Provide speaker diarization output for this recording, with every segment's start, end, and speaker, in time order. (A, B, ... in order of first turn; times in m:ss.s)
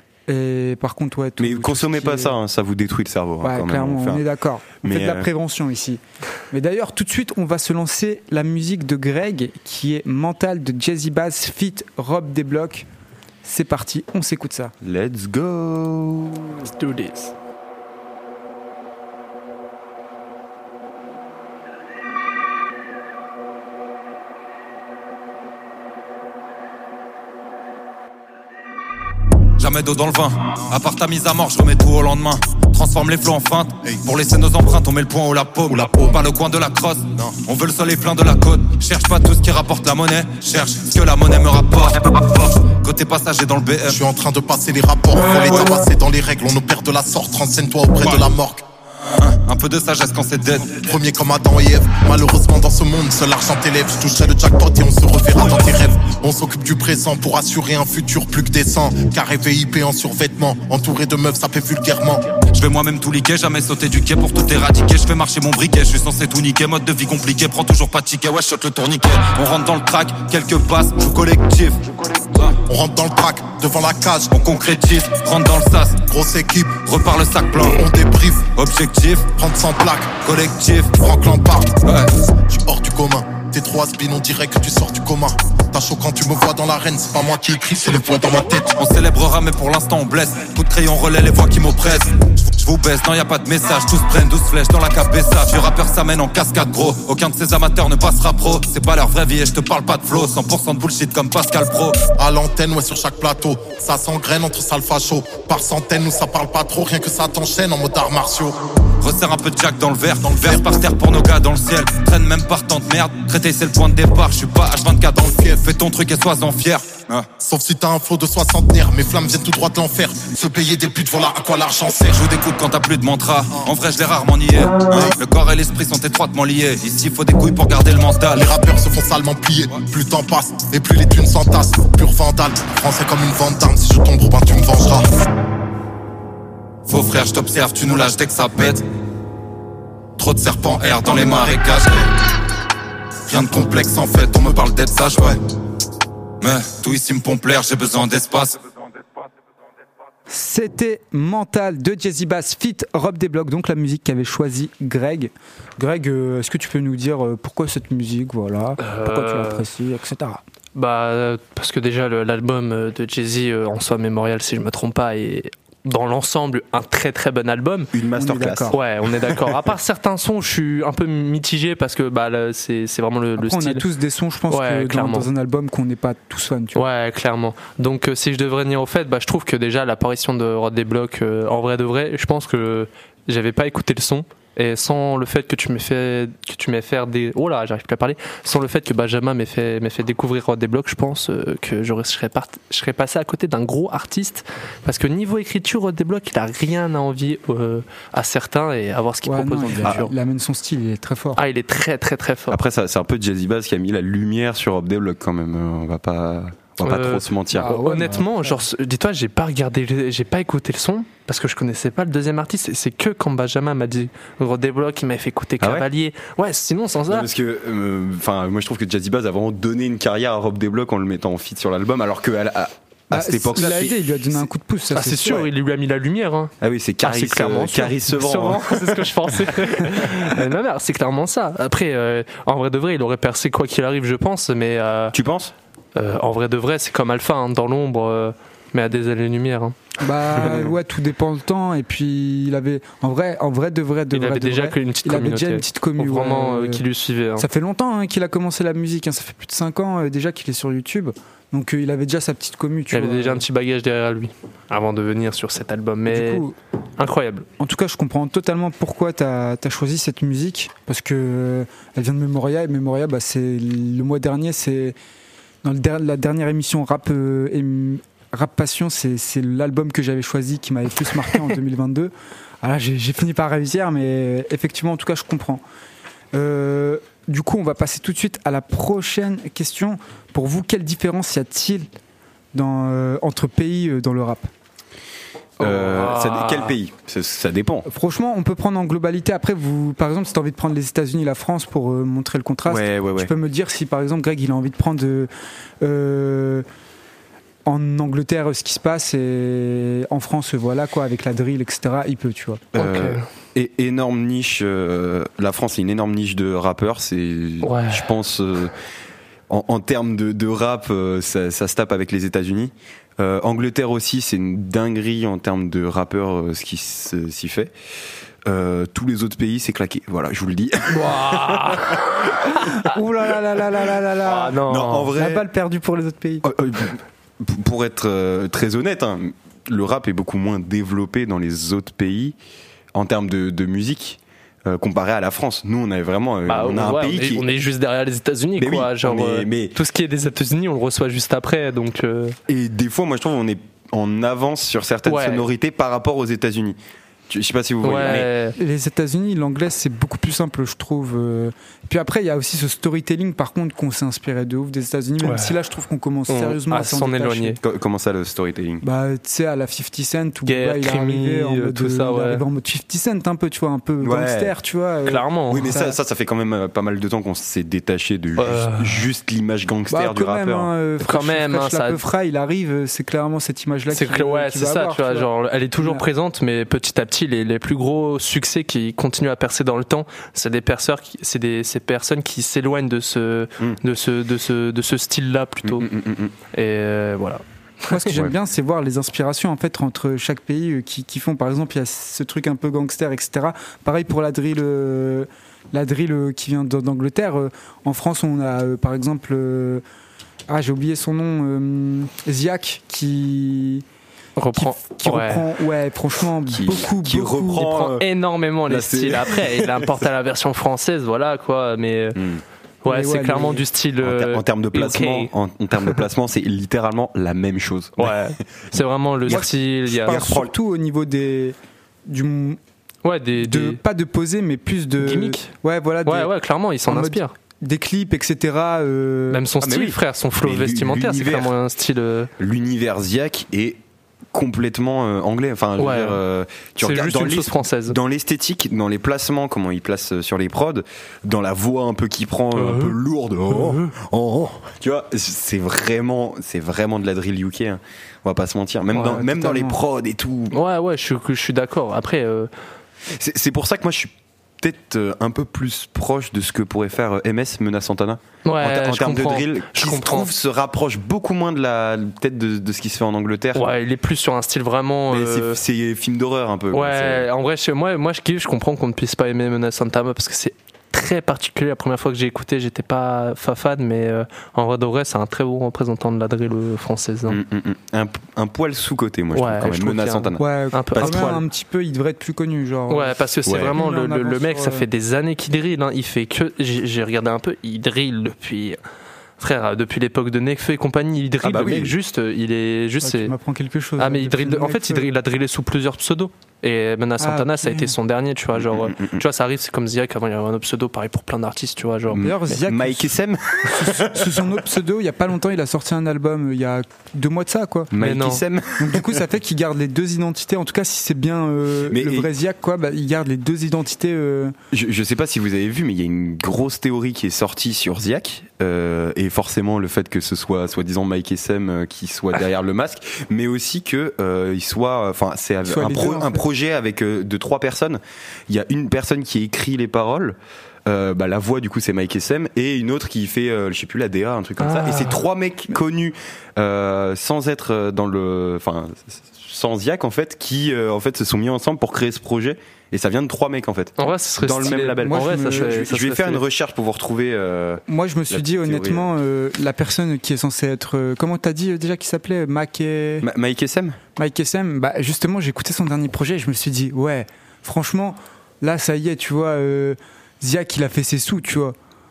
0:00.3-0:02.4 A
0:01.4-0:04.2 B
0:03.4-0:12.8 A
0:04.8-0:05.3 B
0:13.4-0:14.7 A
0:14.8-0:16.7 B
0:16.7-0:17.3 C
0:29.6-0:44.0 D
0:35.7-0:36.1 E
0:43.9-0:48.6 E
0:49.2-0:50.8 D
0:50.7-1:02.2 E
1:02.5-1:11.8 D
1:12.6-1:14.4 E
1:14.3-1:16.0 D
1:16.1-1:16.8 E
1:16.8-1:17.9 D
1:17.6-1:18.5 E
1:18.5-1:19.3 D
1:19.3-1:20.2 E
1:20.2-1:20.9 D
1:20.9-1:21.8 E
1:21.8-1:22.1 D
1:22.4-1:28.8 E
1:28.7-1:42.1 D
1:42.2-1:48.6 E
1:49.0-1:57.3 D
1:50.2-1:50.8 E
1:57.4-2:02.2 E
2:02.1-2:08.5 D
2:08.3-2:15.1 E
2:16.9-2:18.8 D
2:20.2-2:22.0 D
2:20.8-2:21.8 E
2:23.3-2:24.7 E
2:23.3-2:25.4 D
2:26.4-2:28.6 D
2:30.3-2:40.4 A
2:38.8-2:39.6 C
2:40.7-2:47.9 C
2:47.9-2:49.6 B
2:48.2-2:48.8 A
2:48.7-2:53.9 C
2:53.4-2:56.8 A
2:54.5-2:55.3 C
2:56.7-3:20.1 C
3:19.2-3:21.4 A
3:21.4-3:22.6 C
3:22.5-3:27.7 B
3:26.8-3:37.3 C
3:27.5-3:28.6 A
3:35.6-3:35.9 B
3:37.1-3:44.2 B
3:43.1-3:45.4 A
3:44.9-3:55.1 C
3:46.6-3:49.6 B
3:55.1-3:55.5 B
3:56.0-3:59.8 C
4:00.0-4:06.8 A
4:04.1-4:07.4 C
4:07.4-4:13.4 A
4:12.9-4:16.4 C
4:16.1-4:16.5 A
4:17.0-4:17.4 C
4:17.6-4:25.0 A
4:25.6-4:35.6 A
4:36.3-4:41.9 A
4:42.5-4:44.5 A
4:45.6-4:47.9 B
4:45.6-4:46.7 C
4:47.9-4:55.3 A
4:52.6-4:53.3 B
4:55.8-4:56.6 A
4:57.6-5:02.6 A
5:02.7-5:08.7 B
5:02.8-5:03.2 C
5:07.6-5:08.1 C
5:09.5-5:17.7 B
5:18.4-5:22.2 B
5:20.9-5:22.8 C
5:22.7-5:24.6 A
5:24.2-5:25.1 C
5:24.6-5:25.4 B
5:25.1-5:26.4 A
5:26.4-5:32.4 B
5:32.9-5:37.4 B
5:36.5-5:42.4 C
5:38.6-5:39.7 B
5:42.5-5:46.8 B
5:45.0-5:45.4 C
5:47.3-5:48.3 B
5:47.8-5:48.6 C
5:48.6-5:57.6 A
5:55.2-5:55.5 C
5:56.3-5:57.6 C
5:57.6-5:58.8 B
5:58.8-6:06.0 A
6:00.5-6:02.4 C
6:04.0-6:04.6 B
6:05.0-6:05.7 C
6:05.5-6:10.7 B
6:08.4-6:09.0 C
6:09.9-6:16.0 A
6:11.0-6:12.0 C
6:13.9-6:25.9 C
6:25.6-6:26.3 B
6:26.5-6:28.2 C
6:27.9-6:39.8 A
6:40.5-6:43.8 A
6:44.4-6:45.5 C
6:44.5-6:47.7 A
6:46.5-6:48.1 B
6:47.6-6:52.2 C
6:48.7-6:49.9 B
6:52.1-6:52.4 B
6:52.8-6:55.3 C
6:52.8-6:53.6 A
6:54.0-7:00.5 B
6:58.0-7:00.2 C
7:00.0-7:01.6 A
7:02.1-7:02.6 A
7:03.0-7:03.8 C
7:03.4-7:06.3 A
7:05.0-7:05.5 C
7:06.0-7:07.3 C
7:06.8-7:09.4 A
7:09.3-7:12.3 C
7:09.6-7:11.5 B
7:12.4-7:13.8 B
7:14.3-7:30.6 B
7:15.8-7:16.2 C
7:16.8-7:18.0 C
7:22.5-7:23.0 C
7:23.5-7:23.9 C
7:28.9-7:29.7 C
7:30.5-7:32.5 C
7:33.0-7:43.6 B
7:38.4-7:40.3 C
7:43.5-7:45.6 C
7:45.1-7:47.3 B
7:46.7-7:57.4 C
7:57.3-8:01.4 B
7:59.3-8:01.4 C
8:00.4-8:04.8 A
8:02.9-8:08.8 C
8:03.4-8:03.7 B
8:09.4-8:13.3 C
8:11.4-8:11.9 B
8:13.0-8:15.1 A
8:14.0-8:22.6 C
8:17.2-8:17.9 A
8:18.5-8:19.2 B
8:22.1-8:24.4 B
8:22.2-8:23.1 A
8:23.6-8:27.9 A
8:27.9-8:29.2 B
8:28.0-8:28.4 C
8:28.8-8:34.5 A
8:31.9-8:32.3 B
8:34.7-9:09.1 B
8:45.6-8:46.4 A
8:54.6-8:55.2 C
9:04.0-9:06.4 C
9:05.0-9:05.8 A
9:07.9-9:13.3 A
9:13.2-9:14.0 B
9:14.2-9:21.8 A